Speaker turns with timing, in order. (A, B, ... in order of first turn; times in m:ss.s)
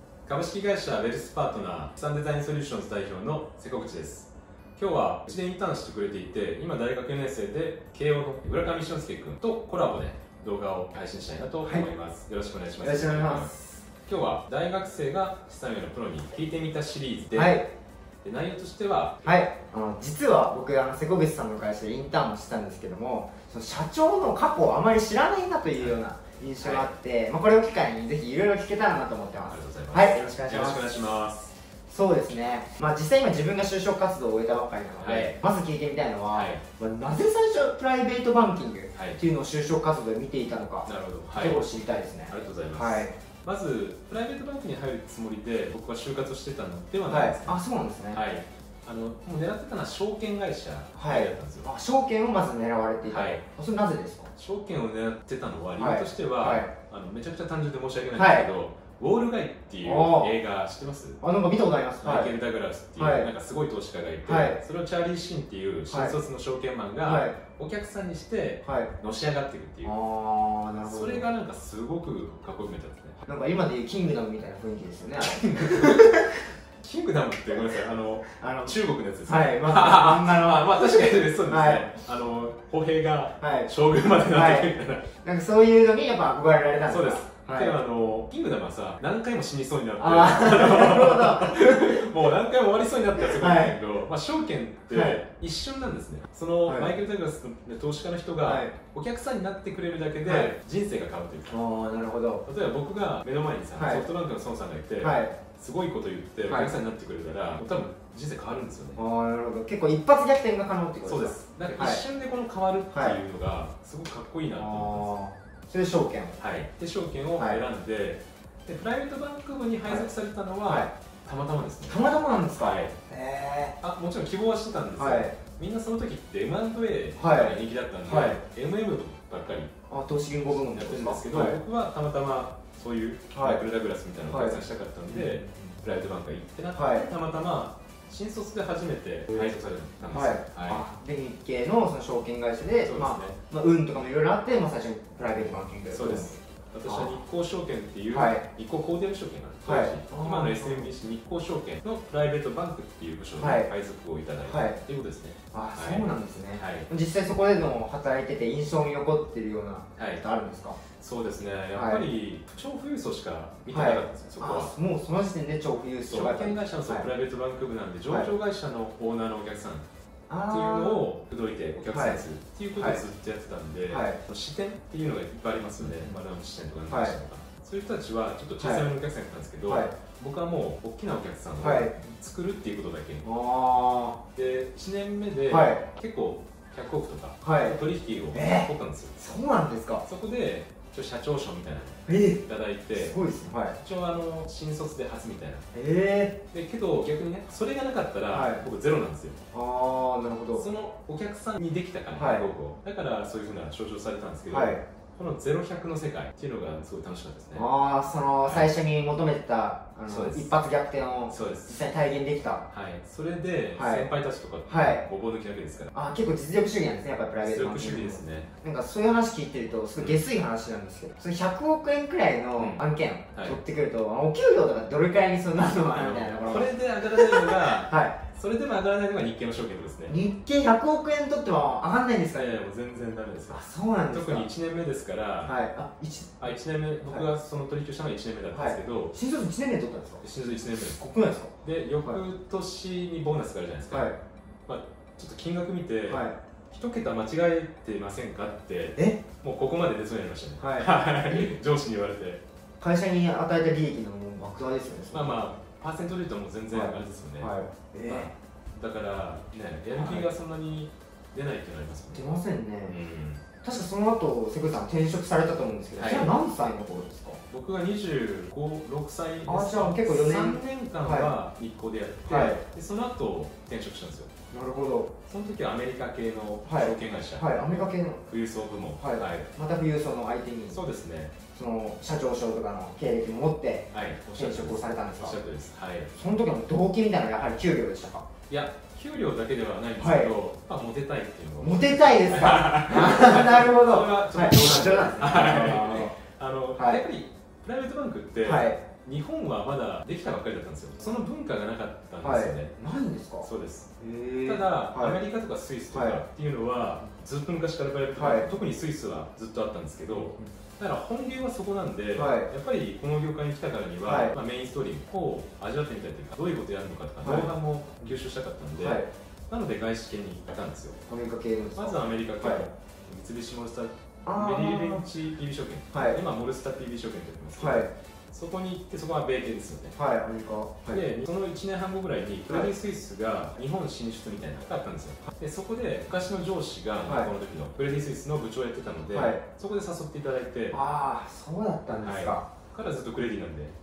0:00.2-0:17.6 A
0:12.8-0:13.5 B
0:17.3-0:17.6 B
0:18.2-0:19.3 A
0:19.2-0:30.9 B
0:26.6-0:26.9 A
0:29.5-0:31.5 A
0:31.9-0:43.1 B
0:35.0-0:35.4 A
0:36.3-0:36.6 A
0:38.9-0:39.2 A
0:40.9-0:41.7 A
0:42.3-0:51.7 A
0:47.1-0:48.2 B
0:51.0-0:54.3 B
0:53.1-0:53.4 A
0:54.4-1:01.2 A
0:55.8-0:56.7 B
0:58.1-0:58.5 B
0:59.8-1:00.3 B
1:01.2-1:02.3 B
1:02.0-1:10.0 A
1:03.0-1:03.3 B
1:04.2-1:04.6 B
1:05.9-1:06.2 B
1:07.0-1:07.4 B
1:08.6-1:08.9 B
1:09.8-1:11.3 B
1:10.9-1:13.2 A
1:13.2-1:16.4 B
1:15.2-1:16.1 A
1:16.8-1:25.1 A
1:17.5-1:21.9 B
1:23.4-1:27.8 B
1:26.9-1:41.6 A
1:30.0-1:32.3 B
1:33.1-1:33.8 B
1:34.9-1:35.2 B
1:36.7-1:36.9 B
1:38.4-1:38.7 B
1:40.2-1:40.5 B
1:41.5-1:42.4 B
1:42.4-1:49.0 A
1:43.8-1:44.0 B
1:45.0-1:45.3 B
1:46.5-1:46.7 B
1:49.0-1:52.0 B
1:51.1-1:55.2 A
1:52.9-1:53.2 B
1:54.5-1:56.4 B
1:56.4-2:02.0 A
2:00.6-2:00.9 B
2:01.9-2:03.8 B
2:02.6-2:03.0 A
2:03.8-2:09.7 A
2:05.0-2:05.3 B
2:07.2-2:08.4 B
2:09.9-2:11.6 B
2:10.5-2:20.8 A
2:13.3-2:13.6 B
2:14.3-2:14.6 B
2:15.1-2:15.8 B
2:16.7-2:17.1 B
2:20.1-2:27.2 B
2:22.8-2:23.4 A
2:25.9-2:36.9 A
2:28.1-2:28.4 B
2:29.6-2:30.9 B
2:33.4-2:33.7 B
2:34.4-2:34.8 B
2:35.5-2:40.8 B
2:40.0-2:40.2 A
2:41.0-2:44.7 A
2:41.7-2:42.0 B
2:43.7-2:47.1 B
2:46.1-2:49.8 A
2:50.3-2:51.0 B
2:50.5-3:03.3 A
2:51.9-2:52.2 B
2:52.7-2:53.0 B
2:53.9-2:54.2 B
2:55.8-2:56.1 B
2:56.9-2:57.2 B
2:58.6-2:58.9 B
2:59.7-2:59.9 B
3:01.6-3:01.9 B
3:03.2-3:04.2 B
3:04.3-3:09.2 A
3:05.5-3:05.8 B
3:07.4-3:07.8 B
3:08.3-3:10.0 B
3:10.0-3:13.2 A
3:12.1-3:12.4 B
3:12.9-3:13.8 B
3:13.8-3:15.7 A
3:15.7-3:16.4 B
3:16.5-3:19.4 A
3:18.3-3:18.6 B
3:19.5-3:20.7 B
3:20.5-3:27.7 A
3:22.1-3:22.4 B
3:24.5-3:24.8 B
3:27.5-3:32.7 B
3:28.4-3:28.7 A
3:30.1-3:30.6 A
3:31.3-3:31.8 A
3:32.7-3:35.9 A
3:33.7-3:34.1 B
3:34.7-3:35.0 B
3:35.9-3:48.1 B
3:37.4-3:38.5 A
3:40.0-3:40.2 A
3:42.6-3:43.6 A
3:45.9-3:50.2 A
3:50.1-3:52.5 B
3:52.3-3:55.6 A
3:53.5-3:54.5 B
3:55.4-3:56.4 B
3:56.4-3:59.1 A
3:58.5-4:00.2 B
4:00.2-4:01.0 A
4:01.0-4:02.2 B
4:01.6-4:04.1 A
4:03.9-4:04.2 B
4:04.7-4:12.4 A
4:06.1-4:06.3 B
4:09.0-4:09.2 B
4:10.6-4:11.5 B
4:12.8-4:15.4 B
4:15.1-4:17.6 A
4:16.7-4:18.3 B
4:18.1-4:22.3 A
4:19.9-4:20.3 B
4:22.1-4:23.0 B
4:22.9-4:23.4 A
4:23.6-4:27.4 B
4:26.0-4:26.3 A
4:27.5-4:34.3 A
4:29.4-4:31.3 B
4:32.2-4:32.6 B
4:34.5-4:35.1 B
4:35.2-4:39.5 A
4:36.6-4:38.2 B
4:39.0-4:40.8 B
4:40.7-4:41.3 A
4:41.5-4:45.4 B
4:43.9-4:46.1 A
4:46.1-4:48.2 B
4:48.5-5:02.7 A
4:50.0-4:50.3 B
4:51.6-4:56.1 B
4:56.8-4:57.0 B
4:58.4-4:58.8 B
5:02.2-5:03.5 B
5:03.4-5:03.9 A
5:04.0-5:05.2 B
5:04.4-5:21.0 A
5:05.9-5:06.2 B
5:08.1-5:08.5 B
5:10.1-5:10.4 B
5:12.1-5:12.5 B
5:14.0-5:14.3 B
5:17.2-5:18.1 B
5:18.8-5:19.1 B
5:21.1-5:22.6 B
5:21.8-5:30.0 A
5:24.2-5:25.0 B
5:25.9-5:26.2 B
5:27.6-5:27.9 B
5:30.0-5:31.0 B
5:30.9-5:40.8 A
5:37.0-5:37.3 B
5:39.1-5:39.4 B
5:40.7-5:42.4 B
5:41.9-5:43.8 A